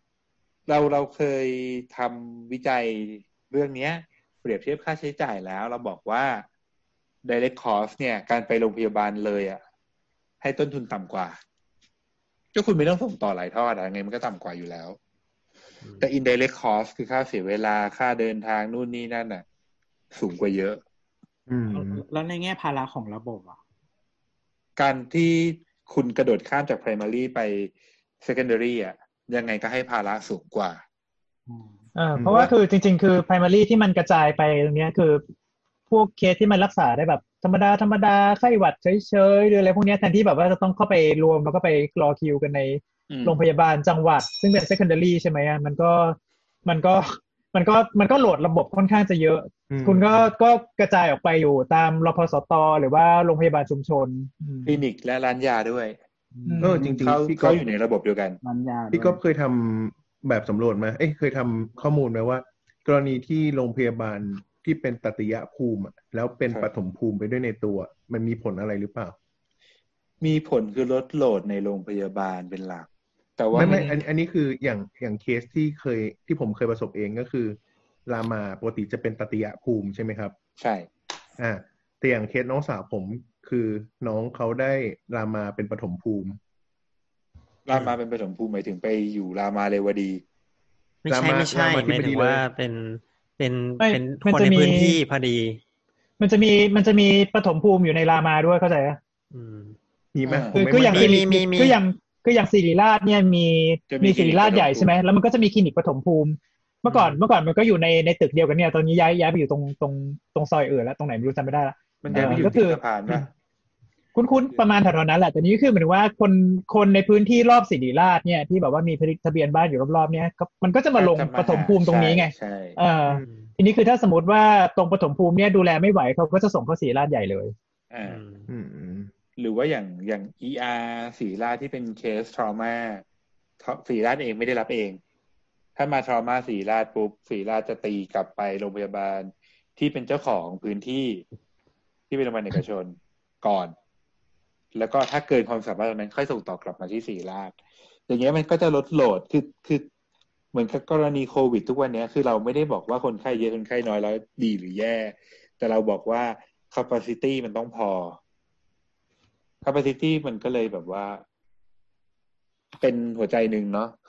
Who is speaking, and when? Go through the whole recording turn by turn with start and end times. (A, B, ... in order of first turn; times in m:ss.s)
0:00.7-0:06.5 A
0:07.2-0:09.6 A
0:10.4-0:11.4 A
0:12.5-0:15.0 A
0:16.0-0:19.4 A
0:20.1-0:20.8 A
0:21.5-0:22.0 B
0:21.7-0:23.6 C
0:24.8-0:30.8 A
0:31.5-0:31.7 C
0:32.0-0:35.2 D
0:32.2-0:32.5 B
0:35.9-0:54.8 D
0:43.1-0:43.4 A
0:49.7-0:50.3 B
0:54.7-0:56.0 A
0:56.3-0:57.0 C
0:56.4-0:56.9 D
0:56.6-0:57.6 B
0:56.9-0:58.4 A
0:58.4-0:59.2 C
0:58.9-1:09.2 B
1:10.2-1:13.9 A
1:13.5-1:20.3 B
1:13.5-1:13.9 D
1:20.6-1:20.9 A
1:21.4-1:26.4 B
1:27.7-1:30.2 A
1:31.0-1:35.6 E
1:31.1-1:32.4 B
1:33.8-1:35.0 D
1:36.2-1:39.0 D
1:39.3-1:39.8 E
1:40.1-1:41.2 B
1:40.3-1:40.5 A
1:40.5-1:53.2 D
1:40.6-1:41.8 E
1:43.9-1:44.9 A
1:46.8-1:47.2 E
1:52.0-1:53.3 A
1:52.1-1:52.4 B
1:54.2-2:07.5 D
2:01.0-2:02.8 A
2:03.2-2:03.5 E
2:07.9-2:08.2 A
2:08.1-2:08.5 E
2:08.5-2:09.1 B
2:09.4-2:13.0 A
2:13.6-2:15.0 A
2:15.8-2:21.2 A
2:22.1-2:23.8 A
2:24.8-2:27.6 A
2:28.1-2:29.9 A
2:30.5-2:38.2 A
2:39.6-2:41.2 A
2:42.8-2:44.0 A